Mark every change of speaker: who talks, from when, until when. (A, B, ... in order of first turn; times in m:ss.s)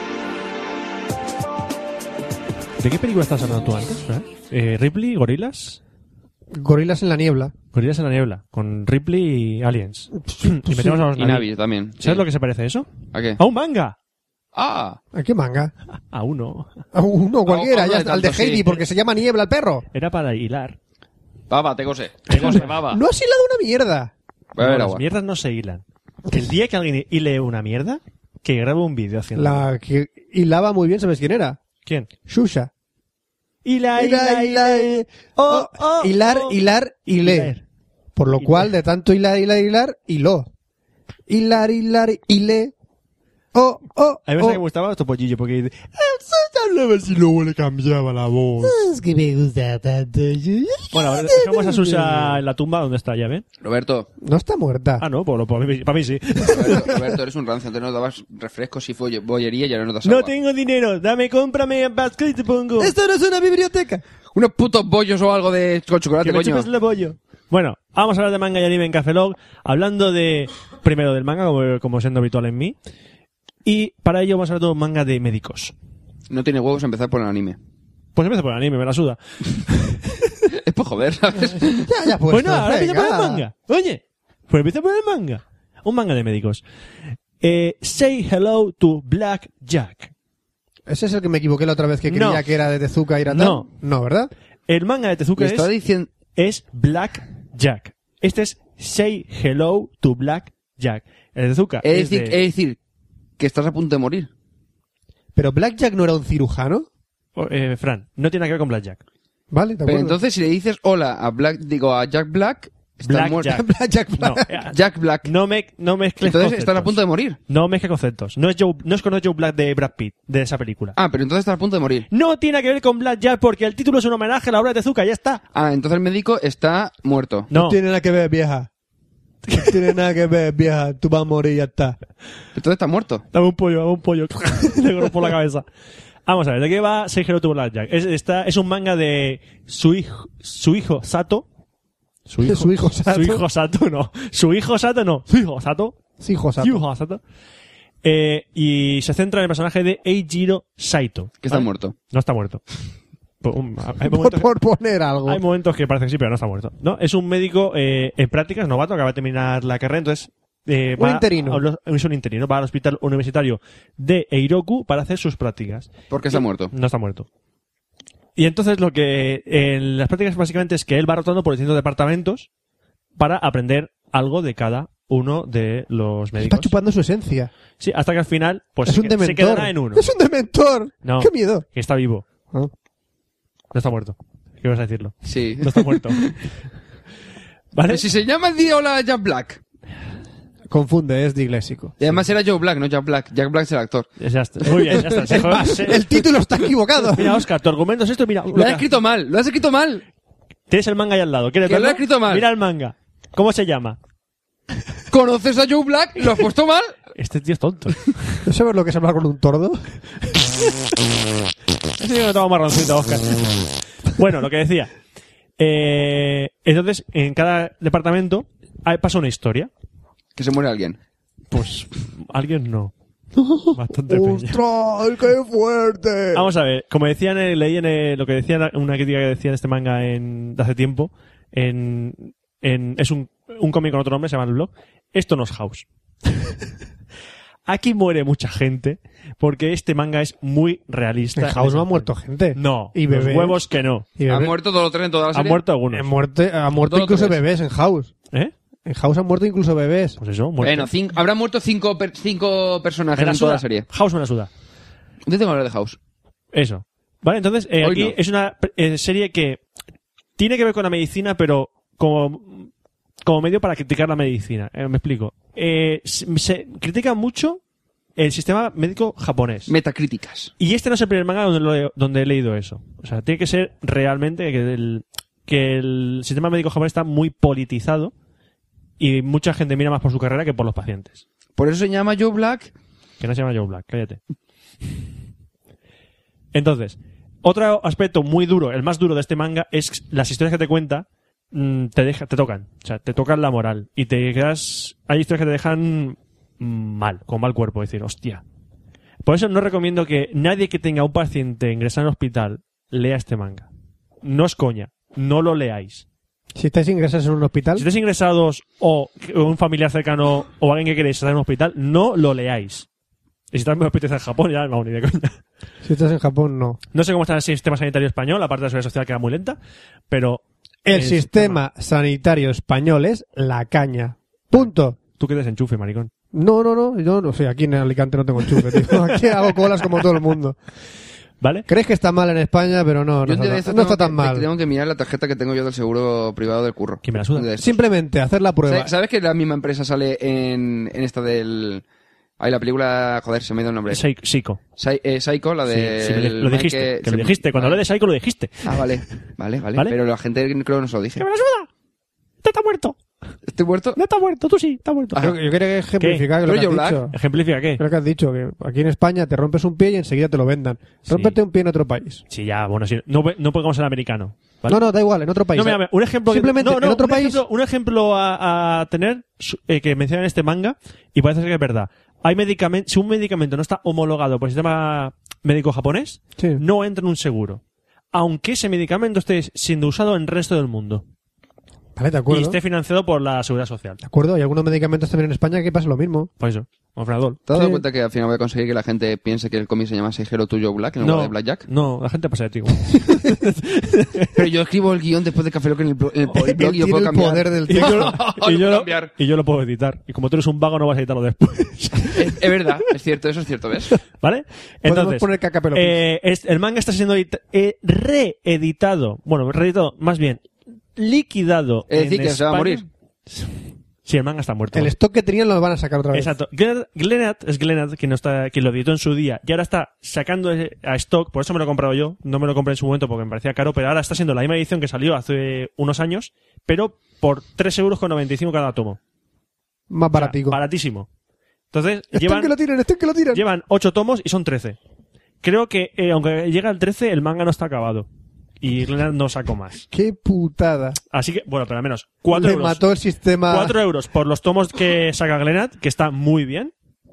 0:02.8-0:05.8 A
0:06.5-0:07.5 B
0:07.7-0:11.5 A
0:10.2-0:11.1 B
0:11.2-0:12.2 C
0:12.0-0:14.0 A
0:13.1-0:13.4 C
0:14.6-0:15.0 C
0:15.1-0:15.7 B
0:16.1-0:16.8 A
0:16.9-0:19.9 B
0:17.5-0:18.8 C
0:19.9-0:20.8 A
0:21.5-0:23.0 C
0:22.3-0:24.1 B
0:22.3-0:22.7 A
0:24.6-0:25.0 C
0:24.6-0:29.7 A
0:29.4-0:31.6 B
0:32.3-0:32.7 B
0:33.6-0:36.6 A
0:34.0-0:37.6 B
0:37.2-0:37.6 A
0:38.2-0:40.5 B
0:38.4-0:38.7 A
0:41.3-0:42.7 B
0:43.5-0:44.6 B
0:44.3-0:48.8 A
0:48.6-0:52.4 B
0:50.9-0:53.4 A
0:53.6-0:54.1 C
0:54.2-0:55.0 B
0:55.0-0:56.9 A
0:56.5-1:00.3 C
1:00.0-1:02.9 A
1:02.8-1:04.0 B
1:04.3-1:06.7 C
1:06.2-1:12.8 A
1:13.6-1:15.7 A
1:16.3-1:17.6 C
1:18.2-1:20.3 A
1:20.5-1:21.9 C
1:21.5-1:23.4 B
1:22.3-1:26.6 A
1:27.4-1:30.1 A
1:30.9-1:34.3 B
1:32.1-1:32.5 A
1:33.3-1:33.7 A
1:34.7-1:35.7 A
1:35.4-1:36.1 C
1:36.3-1:42.4 A
1:41.8-1:42.8 C
1:43.4-1:44.3 C
1:45.4-1:46.9 B
1:47.4-1:49.0 A
1:49.5-1:50.2 B
1:49.9-1:53.6 C
1:53.0-1:53.6 A
1:53.4-1:54.5 B
1:54.2-1:54.7 A
1:54.7-1:55.3 C
1:55.2-1:57.0 A
1:56.2-1:57.4 C
1:57.5-2:01.0 A
2:01.0-2:02.1 C
2:02.1-2:05.4 A
2:05.5-2:07.5 C
2:07.5-2:07.8 A
2:07.5-2:08.7 B
2:09.5-2:12.0 B
2:12.6-2:13.3 C
2:13.3-2:15.6 A
2:16.3-2:21.5 A
2:22.3-2:26.0 A
2:22.4-2:23.4 B
2:26.2-2:26.8 B
2:26.6-2:27.2 A
2:28.0-2:32.6 A
2:31.4-2:32.0 C
2:33.4-2:34.5 A
2:34.0-2:35.4 B
2:35.3-2:47.3 A
2:41.0-2:41.6 B
2:46.1-2:46.7 C
2:48.4-2:52.5 A
2:53.2-2:56.7 A
2:56.4-2:57.5 B
2:57.8-3:00.1 A
2:58.8-3:01.7 B
3:01.0-3:02.2 A
3:03.7-3:06.3 A
3:05.2-3:06.4 C
3:07.7-3:08.0 A
3:07.9-3:09.6 C
3:10.7-3:12.1 B
3:12.0-3:14.1 C
3:14.2-3:16.2 A
3:14.7-3:15.0 C
3:15.0-3:17.4 B
3:17.1-3:18.9 A
3:18.5-3:20.0 C
3:20.7-3:24.0 A
3:21.7-3:22.5 C
3:25.1-3:26.9 C
3:27.2-3:28.4 A
3:28.4-3:30.0 B
3:32.0-3:34.9 A
3:35.6-3:39.7 A
3:40.4-3:41.0 C
3:41.5-3:42.9 A
3:43.4-3:46.5 B
3:43.7-3:44.6 A
3:46.3-3:55.9 A
3:57.7-4:04.1 A
4:01.4-4:03.6 B
4:04.2-4:04.6 B
4:04.3-4:05.6 C
4:05.3-4:06.1 A
4:05.9-4:08.1 B
4:06.8-4:07.4 C
4:08.8-4:10.2 B
4:10.2-4:10.9 A
4:10.6-4:13.9 C
4:13.2-4:14.5 A
4:15.3-4:16.0 C
4:16.5-4:19.6 A
4:17.8-4:18.2 C
4:20.4-4:22.7 A
4:23.2-4:27.6 A
4:28.2-4:29.7 A
4:29.7-4:30.5 C
4:30.6-4:38.1 A
4:39.0-4:41.2 A
4:41.6-4:42.7 C
4:43.2-4:44.2 A
4:46.5-4:58.4 A
4:59.2-5:03.7 A
5:04.2-5:06.0 A
5:06.6-5:07.9 B
5:07.8-5:12.9 A
5:13.5-5:15.4 A
5:15.8-5:16.8 B
5:16.9-5:19.6 A
5:20.1-5:21.6 A
5:20.8-5:25.0 B
5:24.5-5:26.1 A
5:26.3-5:30.6 B
5:28.8-5:29.2 A
5:31.4-5:31.7 A
5:31.7-5:34.5 B
5:33.2-5:37.8 C
5:37.0-5:37.5 A
5:37.6-5:38.9 B
5:38.7-5:41.8 C
5:42.4-5:44.0 C
5:43.9-5:44.6 A
5:44.8-5:47.8 C
5:45.7-5:48.8 A
5:48.6-5:51.2 C
5:51.2-5:51.7 A
5:52.4-5:53.0 A
5:53.5-5:54.0 C
5:54.0-5:55.3 A
5:55.2-5:57.2 B
5:56.0-5:56.3 A
5:56.4-5:57.1 C
5:57.1-5:57.8 A
5:57.8-6:02.2 B
6:01.1-6:01.4 A
6:02.3-6:04.9 A
6:04.7-6:07.4 B
6:05.5-6:17.6 A
6:16.4-6:16.6 B
6:18.1-6:21.0 A
6:22.0-6:22.6 B
6:22.3-6:24.0 A
6:24.0-6:26.3 B
6:26.4-6:27.4 A
6:27.5-6:31.6 C
6:27.5-6:27.8 B
6:31.0-6:34.3 A
6:34.4-6:39.1 C
6:36.3-6:38.2 B
6:37.7-6:42.6 A
6:42.2-6:44.0 C
6:44.2-6:50.4 A
6:44.8-6:46.0 B
6:51.0-6:54.9 A
6:51.9-6:52.8 C
6:54.7-6:56.3 B
6:56.1-7:09.0 A
7:09.9-7:10.6 B
7:10.1-7:11.1 A
7:11.7-7:12.5 A
7:12.1-7:13.4 B
7:13.3-7:14.8 A
7:15.4-7:18.1 A
7:18.6-7:19.9 A
7:19.9-7:21.0 B
7:21.1-7:22.8 A
7:22.3-7:23.8 B
7:23.5-7:26.7 A